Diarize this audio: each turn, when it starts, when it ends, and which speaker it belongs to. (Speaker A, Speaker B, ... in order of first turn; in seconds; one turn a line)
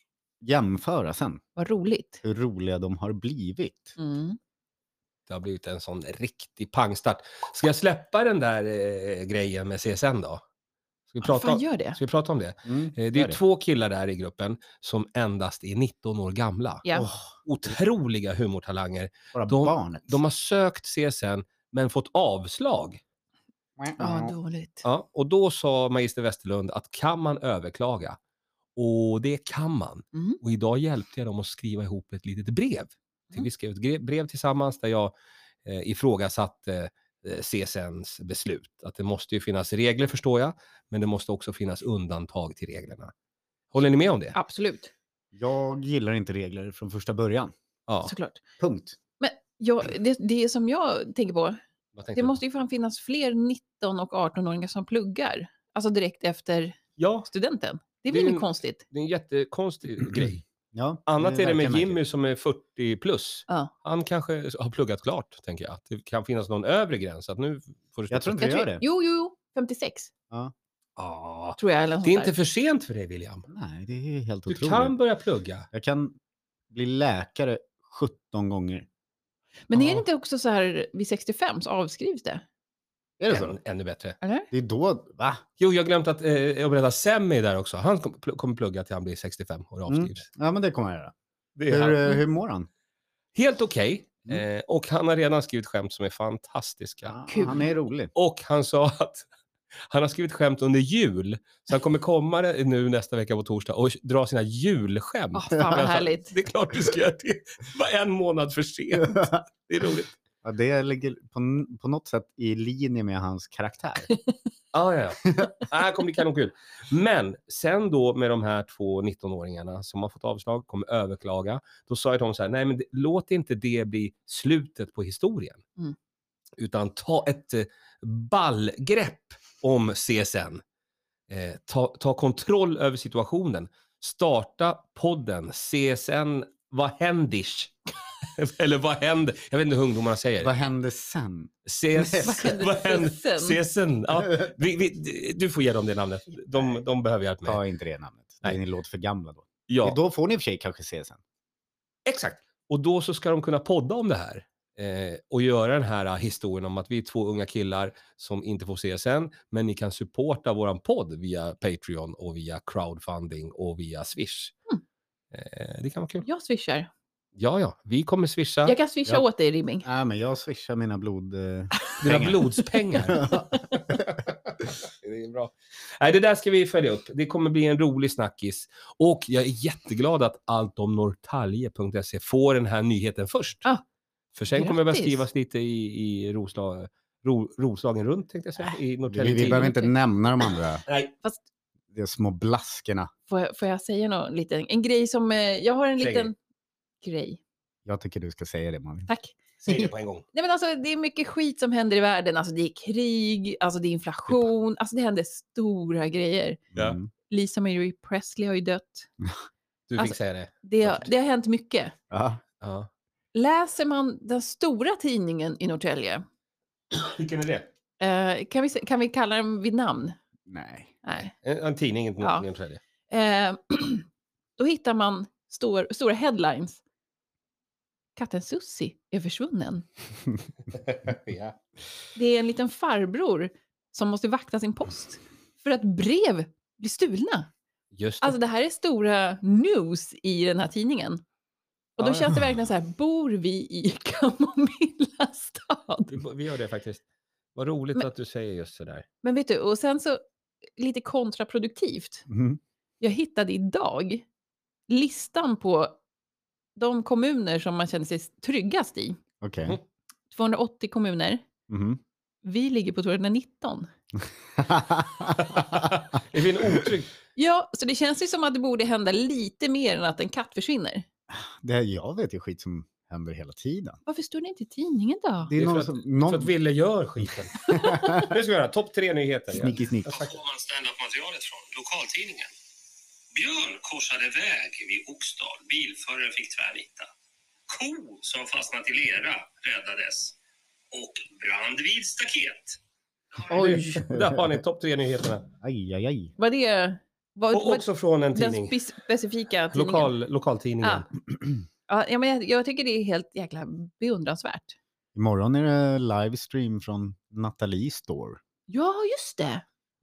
Speaker A: 0.4-1.4
Speaker B: 1.6-2.2
Speaker A: 2.2-4.0
Speaker B: 4.0-4.4
Speaker C: 5.3-10.4
Speaker C: 11.1-16.9
Speaker B: 11.2-12.0
Speaker A: 12.7-13.4
Speaker A: 16.9-17.3
Speaker C: 17.4-23.0
Speaker A: 19.3-20.2
Speaker A: 23.8-24.4
Speaker B: 24.0-24.9
Speaker C: 24.8-28.2
Speaker C: 28.8-35.1
Speaker B: 30.1-30.4
Speaker C: 35.6-43.1
Speaker C: 43.7-44.4
Speaker B: 44.4-44.9
Speaker A: 45.3-47.5
Speaker C: 47.9-48.1
Speaker B: 48.0-48.4
Speaker A: 48.6-49.0
Speaker B: 49.2-51.6
Speaker C: 52.0-52.4
Speaker B: 52.1-56.8
Speaker C: 57.0-57.3
Speaker B: 57.3-58.8
Speaker C: 58.1-60.4
Speaker A: 60.2-62.0
Speaker C: 61.1-68.5
Speaker A: 68.1-68.8
Speaker B: 68.4-70.1
Speaker C: 71.0-73.5
Speaker B: 71.6-72.3
Speaker A: 73.5-75.0
Speaker C: 74.5-75.7
Speaker A: 75.7-76.2
Speaker A: 76.7-78.9
Speaker B: 79.7-82.4
Speaker C: 79.7-80.0
Speaker A: 83.2-83.6
Speaker C: 83.3-84.2
Speaker B: 84.2-84.5
Speaker A: 84.5-85.4
Speaker C: 85.6-90.3
Speaker A: 89.9-91.1
Speaker C: 91.6-92.2
Speaker A: 91.7-92.7
Speaker C: 93.3-97.2
Speaker A: 97.0-98.1
Speaker B: 97.3-97.7
Speaker C: 98.1-99.3
Speaker C: 99.9-110.1
Speaker B: 105.3-106.4
Speaker A: 105.6-105.8
Speaker A: 109.0-109.4
Speaker A: 110.4-114.1
Speaker C: 114.7-125.6
Speaker C: 126.6-130.6
Speaker C: 131.3-137.8
Speaker C: 138.4-140.6
Speaker A: 140.4-142.4
Speaker C: 141.7-147.6
Speaker B: 142.0-143.6
Speaker A: 147.4-151.2
Speaker C: 149.7-150.0
Speaker C: 152.1-164.5
Speaker C: 165.3-166.3
Speaker B: 166.2-166.9
Speaker C: 167.4-168.8
Speaker B: 168.7-169.9
Speaker A: 169.8-173.5
Speaker C: 172.0-173.2
Speaker B: 173.3-173.9
Speaker C: 174.1-183.7
Speaker C: 184.3-189.7
Speaker B: 184.5-185.2
Speaker A: 189.1-190.8
Speaker B: 189.3-189.9
Speaker C: 190.9-191.1
Speaker A: 191.9-193.1
Speaker B: 193.3-196.4
Speaker C: 196.0-196.3
Speaker B: 197.0-197.4
Speaker A: 197.9-199.1
Speaker B: 199.1-206.6
Speaker C: 199.6-200.2
Speaker A: 206.7-207.1
Speaker B: 207.3-209.1
Speaker C: 209.9-211.1
Speaker B: 210.0-211.9
Speaker A: 212.1-212.4
Speaker C: 212.6-212.9
Speaker B: 213.3-216.2
Speaker C: 216.9-217.7
Speaker B: 218.0-220.2
Speaker A: 220.5-220.9
Speaker B: 221.0-221.3
Speaker C: 221.3-222.8
Speaker B: 222.2-222.5
Speaker B: 223.1-224.1
Speaker B: 224.6-226.8
Speaker B: 228.2-229.8
Speaker C: 230.7-231.6
Speaker B: 232.2-237.5
Speaker C: 237.9-238.4
Speaker B: 238.2-241.2
Speaker B: 242.0-246.2
Speaker C: 242.0-242.4
Speaker C: 246.1-247.0
Speaker C: 247.6-249.1
Speaker B: 249.2-250.2
Speaker B: 250.8-252.2
Speaker A: 252.3-252.6
Speaker B: 253.0-254.2
Speaker B: 254.9-256.0
Speaker B: 256.8-259.2
Speaker A: 259.4-259.8
Speaker B: 260.3-261.4
Speaker A: 261.7-262.0
Speaker B: 262.4-263.9
Speaker A: 264.6-265.9
Speaker C: 265.4-267.1
Speaker B: 267.4-271.0
Speaker A: 271.3-274.0
Speaker B: 274.1-275.5
Speaker A: 275.5-276.5
Speaker C: 275.5-282.5
Speaker B: 277.7-278.2
Speaker A: 277.7-278.3
Speaker A: 279.5-280.4
Speaker C: 283.3-287.1
Speaker C: 287.7-290.4
Speaker C: 290.9-292.8
Speaker C: 293.4-295.5
Speaker A: 293.5-294.6
Speaker A: 295.6-296.4
Speaker B: 296.4-300.1
Speaker C: 297.5-298.8
Speaker C: 299.7-301.1
Speaker B: 300.8-301.1
Speaker B: 301.9-304.8
Speaker A: 305.1-308.4
Speaker B: 308.7-309.6